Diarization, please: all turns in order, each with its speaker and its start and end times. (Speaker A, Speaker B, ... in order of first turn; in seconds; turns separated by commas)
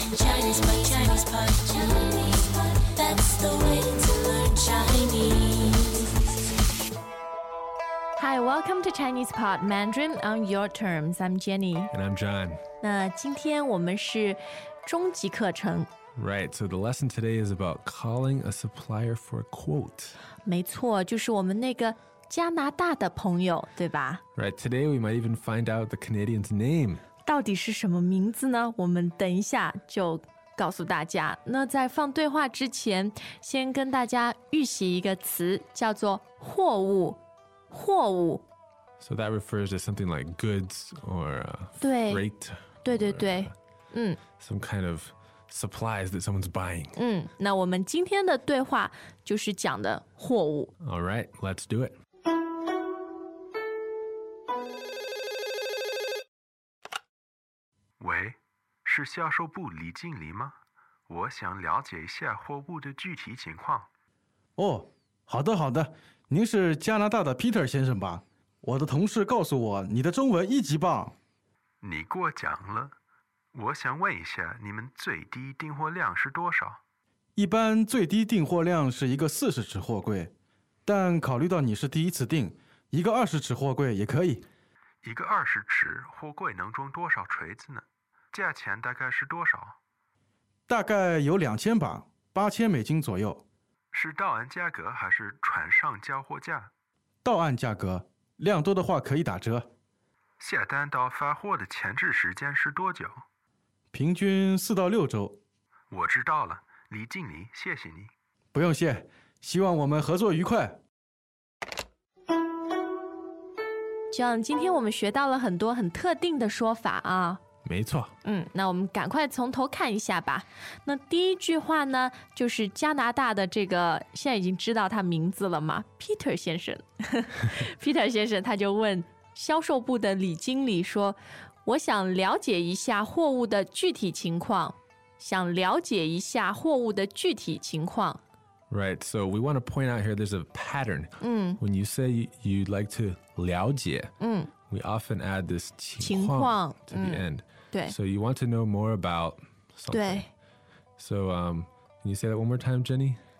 Speaker A: 0.1-6.1, Speaker B: 8.2-11.9, Speaker C: 11.9-12.6, Speaker B: 12.8-15.9, Speaker C: 16.1-20.2, Speaker B: 20.4-24.2, Speaker C: 24.3-27.0, Speaker B: 27.2-37.2, Speaker B: 37.7-38.4, Speaker C: 39.0-43.5, Speaker B: 41.8-42.2, Speaker B: 42.8-44.2, Speaker C: 44.4-47.0, Speaker B: 46.9-50.7, Speaker C: 50.8-52.0, Speaker D: 58.0-60.5, Speaker D: 61.1-63.9, Speaker E: 64.6-71.2, Speaker D: 71.8-72.9, Speaker D: 73.5-76.8, Speaker E: 77.3-80.3, Speaker E: 80.8-84.4, Speaker D: 85.0-89.8, Speaker E: 90.7-93.4, Speaker D: 93.9-96.7, Speaker E: 97.2-99.7, Speaker D: 100.4-103.2, Speaker E: 103.9-105.4, Speaker D: 105.9-108.1, Speaker E: 108.5-110.8, Speaker B: 114.1-117.4, Speaker C: 117.6-118.1, Speaker B: 118.2-138.2, Speaker C: 138.7-144.1, Speaker B: 141.2-141.6, Speaker B: 144.2-144.5, Speaker C: 144.7-150.3, Speaker B: 146.0-147.9, Speaker B: 149.9-150.3, Speaker C: 151.0-153.2